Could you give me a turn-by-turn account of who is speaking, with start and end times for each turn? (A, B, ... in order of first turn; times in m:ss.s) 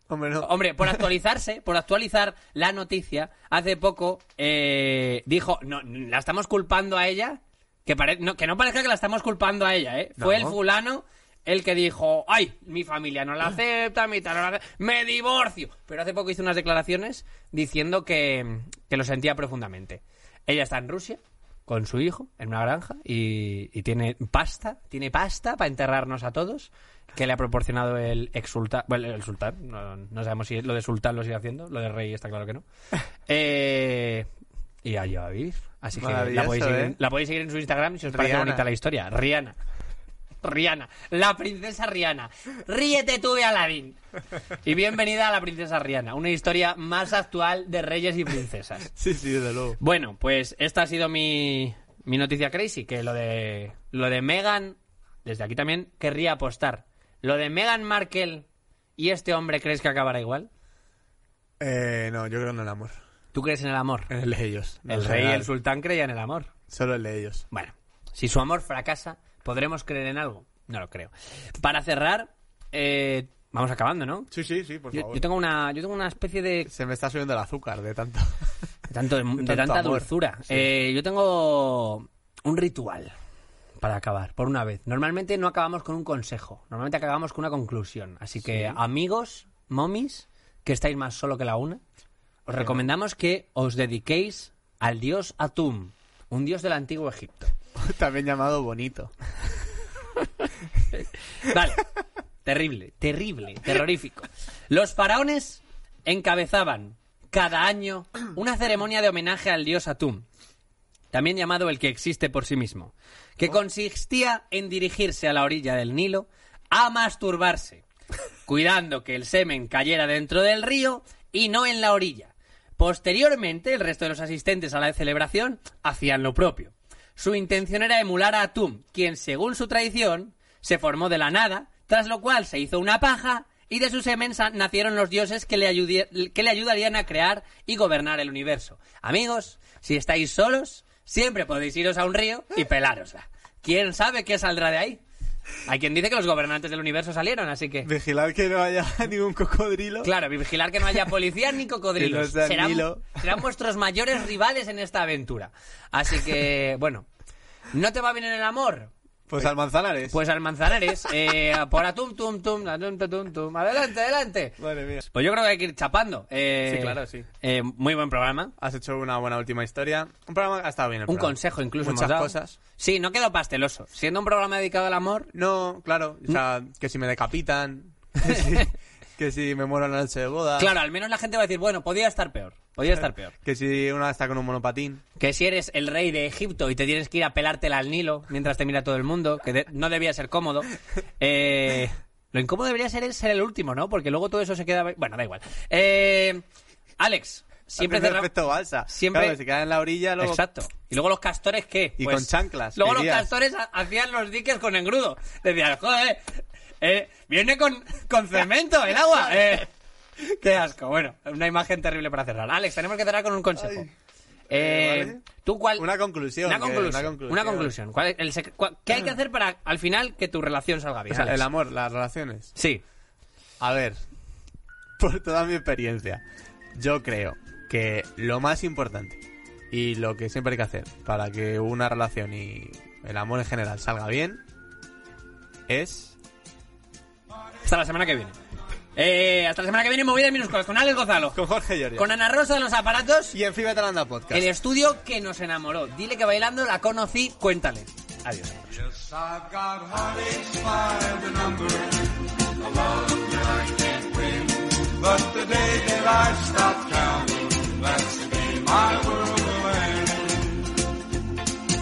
0:00.1-0:01.0 A
0:00.4-0:32.6 B
0:10.2-0:10.6 A
0:33.3-0:34.3 B
0:34.8-0:39.6 B
0:36.0-0:37.0 A
0:38.1-0:38.6 A
0:40.4-0:44.0 B
0:44.6-0:48.9 B
0:48.9-0:49.8 A
0:49.8-0:58.4 B
0:59.0-1:00.5 B
1:01.6-1:03.0 A
1:03.3-1:04.1 B
1:04.1-1:05.5 A
1:04.9-1:06.5 B
1:06.7-1:07.4 A
1:07.5-1:14.3 B
1:14.3-1:15.2 A
1:14.9-1:16.7 B
1:16.7-1:18.5 A
1:18.9-1:23.1 B
1:19.4-1:20.7 A
1:23.8-1:31.8 B
1:28.4-1:28.8 A
1:32.4-1:37.5 B
1:32.6-1:32.8 A
1:37.8-1:39.1 A
1:40.9-1:41.8 B
1:42.4-1:50.2 B
1:51.1-1:57.8 B
1:58.4-2:25.0 B
2:25.6-2:27.9 B
2:27.8-2:30.1 A
2:30.0-2:37.1 B
2:32.0-2:33.3 A
2:37.7-2:38.9 B
2:39.3-2:40.2 A
2:40.1-2:48.5 B
2:44.6-2:45.0 A
2:46.6-2:47.2 A
2:48.6-2:52.6 A
2:51.1-2:55.3 B
2:55.3-3:00.7 A
2:58.2-2:58.6 B
3:00.6-3:03.3 B
3:03.4-3:05.0 A
3:05.2-3:16.4 B
3:17.0-3:18.3 B
3:17.8-3:20.4 A
3:18.9-3:19.4 B
3:20.2-3:26.2 B
3:22.0-3:23.3 A
3:26.8-3:33.9 B
3:34.5-3:35.9 B
3:34.5-3:35.2 A
3:35.8-3:37.7 A
3:36.4-3:41.4 B
3:41.1-3:42.5 A
3:42.6-3:42.8 B
3:43.6-3:44.0 A
3:45.0-3:46.2 A
3:46.7-3:54.4 A
3:55.7-3:56.1 A
3:57.6-3:58.4 B
3:59.0-4:01.4 B
4:01.3-4:02.1 A
4:02.0-4:03.3 B
4:03.3-4:04.5 A
4:04.3-4:08.7 B
4:08.8-4:20.9 C